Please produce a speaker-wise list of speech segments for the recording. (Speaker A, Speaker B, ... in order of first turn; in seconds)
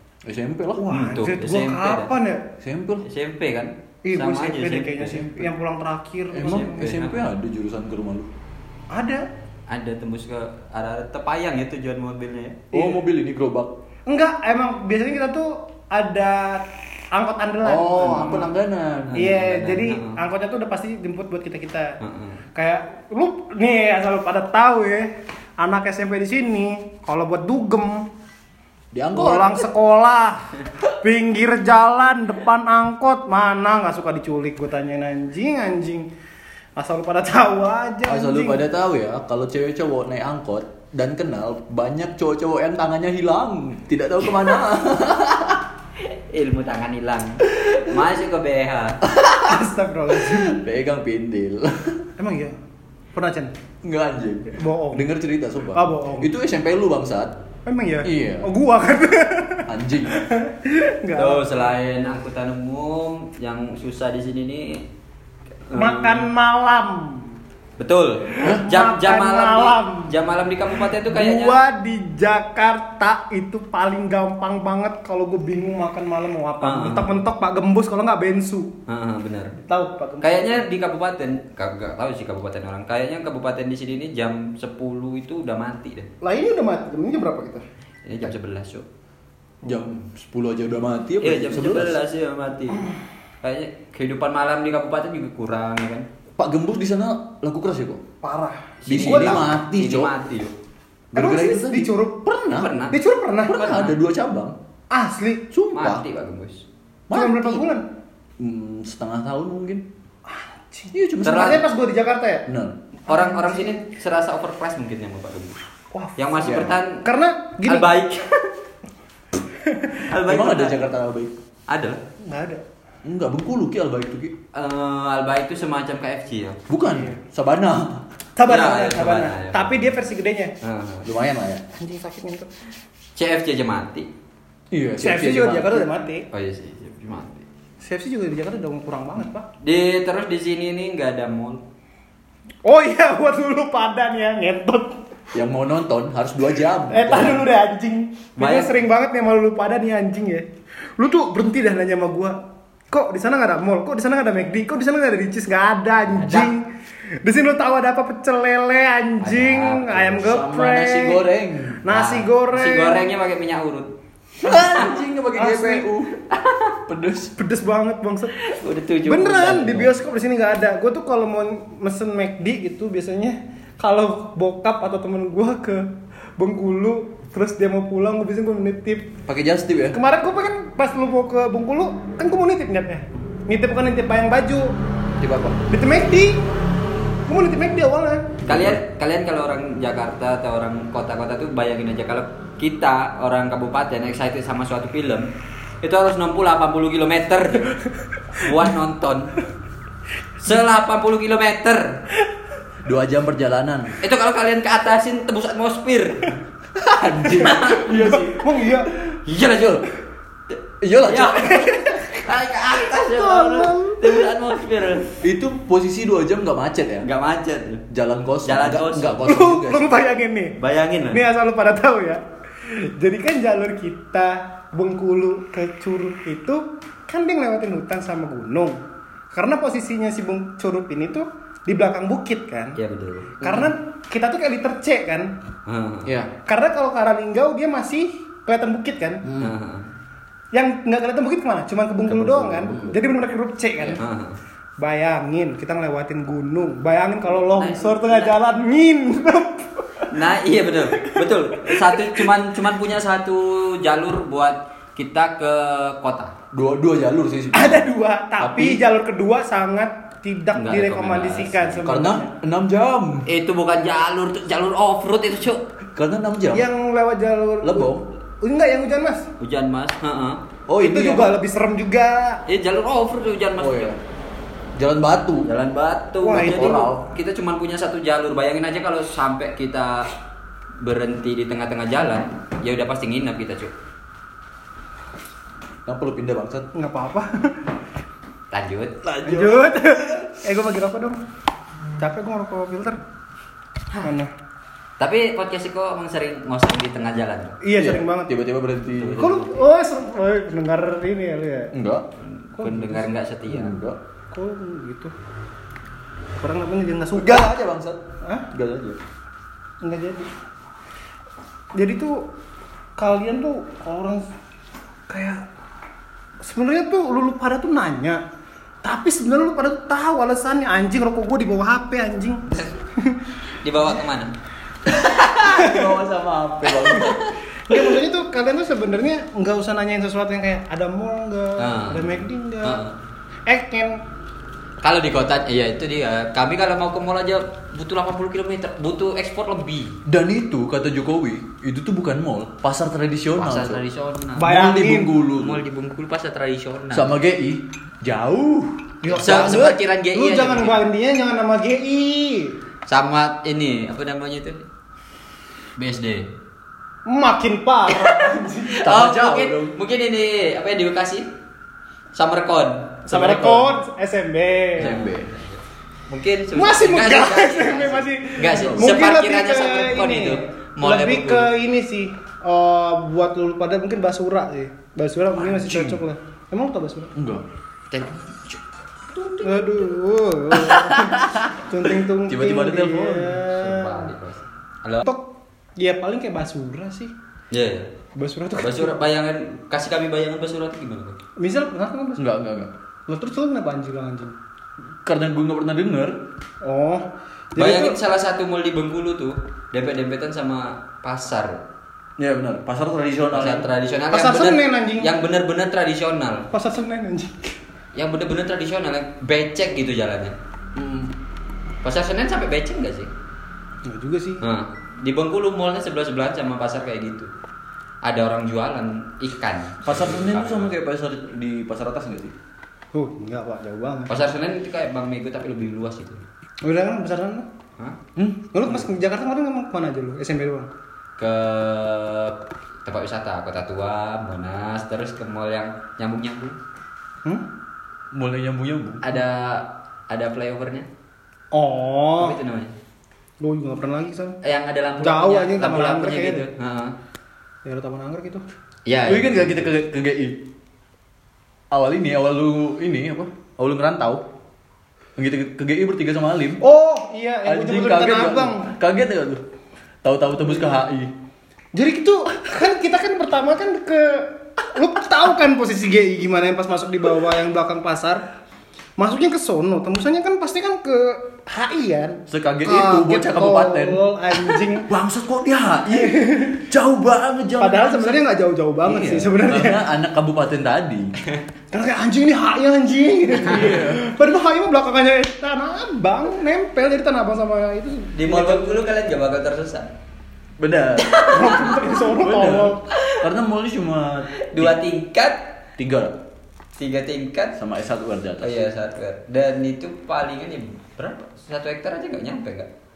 Speaker A: 0.2-0.8, 2.6-3.0, 6.3-8.3, 12.7-13.7, 17.6-19.3, 28.9-29.6, 38.1-45.6, 49.0-52.1, 53.8-57.3, 58.0-58.5, 59.7-60.1, 89.6-92.0, 96.4-98.0, 98.9-100.1, 101.1-101.9, 102.5-102.7, 103.5-104.6, 105.5-106.0, 107.1-107.6, 108.4-109.8, 110.9-111.6, 112.5-112.8, 116.4-116.8, 120.2-121.3, 123.0-124.3, 126.7-128.1, 131.0-131.6, 134.7-135.8, 145.3-147.4, 160.2-161.8, 164.4-166.2, 166.9-167.3, 179.3-180.0, 185.2-185.6, 188.4-188.8, 202.8-204.0, 206.8-209.2, 210.8-212.0, 215.2-217.1, 217.9-219.9, 233.4-233.7, 236.1-236.3, 239.2-239.5, 242.7-243.0, 256.5-258.8, 261.8-263.3, 265.9-266.7, 267.6-268.1, 270.7-271.4, 273.6-274.0, 274.8-275.5, 276.3-277.1, 285.9-286.7, 289.0-290.3, 297.8-299.4, 301.7-302.1, 303.5-304.0, 307.1-309.0, 324.9-327.3, 340.1-343.8, 344.4-345.6, 346.9-349.8, 358.7-359.8, 363.2-363.6, 364.8-365.3, 368.5-369.0, 375.5-376.0, 377.1-377.4, 382.2-383.4, 392.2-392.7, 395.0-396.2, 402.2-403.7, 410.8-411.1, 419.8-422.3, 438.1-439.1, 449.0-450.5, 451.7-454.2, 455.2-456.6, 457.4-459.4, 460.0-461.1, 472.3-478.2, 478.8-481.1, 483.3-484.1, 490.6-494.8, 495.8-496.2, 497.6-498.7
Speaker B: 0.8-2.5, 4.0-7.0, 8.9-9.2, 12.7-13.0, 14.1-18.5, 19.1-22.0, 22.5-28.1, 29.1-36.1, 36.8-38.6, 49.4-50.6, 52.2-52.5, 53.1-53.5, 54.5-55.1, 55.7-56.3, 57.6-61.5, 65.7-67.4, 68.3-70.1, 71.0-78.7, 79.6-80.6, 86.2-87.6, 98.2-99.5, 101.1-103.6, 104.9-105.5, 107.1-107.8, 110.3-112.5, 113.1-113.8, 115.9-117.9, 119.6-120.0, 122.2-122.6, 126.9-127.2, 128.4-130.5, 131.7-132.5, 135.0-136.3, 137.8-139.5, 142.6-145.0, 146.9-150.5, 151.0-156.7, 157.2-161.2, 161.8-163.0, 165.3-165.8, 167.4-168.4, 169.1-179.1, 179.9-184.7, 185.7-186.4, 187.3-188.4, 207.9-208.9, 211.6-212.2, 212.8-214.1, 219.2-220.5, 221.1-232.8, 233.4-235.3, 236.4-239.2, 240.5-244.0, 244.8-250.1, 250.9-252.3, 257.5-262.3, 266.5-269.3, 270.8-272.4, 276.2-276.9, 286.7-287.6, 289.2-291.2, 292.0-293.0, 294.0-294.3, 297.6-298.4, 299.2-301.7, 302.6-303.1, 304.3-305.1, 306.4-307.5, 309.8-310.3, 311.7-312.3, 313.0-314.2, 315.1-315.4, 316.4-318.2, 318.8-322.4, 323.0-323.3, 325.5-325.8, 327.7-332.8, 333.5-334.0, 344.4-345.1, 349.0-352.6, 357.1-358.9, 363.1-365.0, 366.6-377.1, 379.4-384.1, 385.0-387.1, 388.1-388.9, 391.4-392.2, 393.1-394.3, 396.6-398.0, 404.1-405.1, 406.5-407.6, 413.9-414.4, 422.9-424.1, 426.6-427.5, 428.5-430.7, 441.5-442.4, 443.4-444.4, 445.0-446.5, 447.6-448.4, 456.6-458.7, 461.7-468.2, 469.0-474.9, 475.9-476.6, 477.6-479.8, 481.7-488.8, 491.3-492.8
Speaker C: 0.9-2.1, 3.0-5.5, 6.4-7.2, 9.7-12.6, 19.1-20.2, 22.0-22.4, 46.0-49.0, 61.1-64.8, 65.7-66.3, 67.8-71.6, 76.6-77.1, 78.9-79.6, 80.2-86.1, 88.0-88.8, 91.2-96.1, 98.8-100.5, 102.5-103.0, 103.5-104.0, 105.7-106.6, 111.2-111.6, 113.1-115.6, 116.2-117.0, 117.6-118.5, 120.1-120.9, 121.7-122.0, 124.5-126.6, 128.4-129.9, 130.6-131.1, 133.2-134.1, 136.3-137.4, 139.6-141.6, 148.4-148.7, 156.1-156.5, 159.2-160.3, 161.9-163.9, 164.4-165.0, 166.3-166.8, 168.4-169.9, 188.4-195.3, 195.8-197.8, 198.3-199.3, 200.4-202.0, 204.0-206.4, 207.2-208.0, 209.2-209.8, 211.0-215.1, 217.0-217.8, 218.4-219.2, 220.6-221.2, 232.8-233.4, 235.7-236.2, 239.4-239.9, 242.1-242.9, 243.9-244.4, 247.4-248.3, 250.1-256.3, 260.5-261.8, 263.3-265.6, 269.4-270.4, 272.5-273.9, 275.4-280.1, 280.8-283.7, 288.5-289.0, 295.0-297.6, 298.9-299.6, 302.2-303.8, 322.5-322.7, 323.6-324.3, 331.6-332.9, 334.8-340.0, 343.4-344.6, 345.2-347.2, 349.1-350.8, 352.9-354.6, 355.8-356.3, 358.0-361.3, 362.1-363.7, 364.8-371.5, 377.9-378.6, 379.1-379.9, 380.6-381.3, 383.4-385.0, 387.5-387.9, 388.5-391.2, 397.6-401.6, 403.3-406.5, 407.9-410.4, 411.8-413.1, 414.4-417.3, 418.0-420.7, 424.1-426.2, 431.2-436.6, 439.0-440.9, 442.2-442.7, 444.4-446.9, 448.9-449.8, 488.1-489.9, 491.0-491.8, 492.9-493.2, 494.4-495.4, 496.8-497.6, 498.4-502.7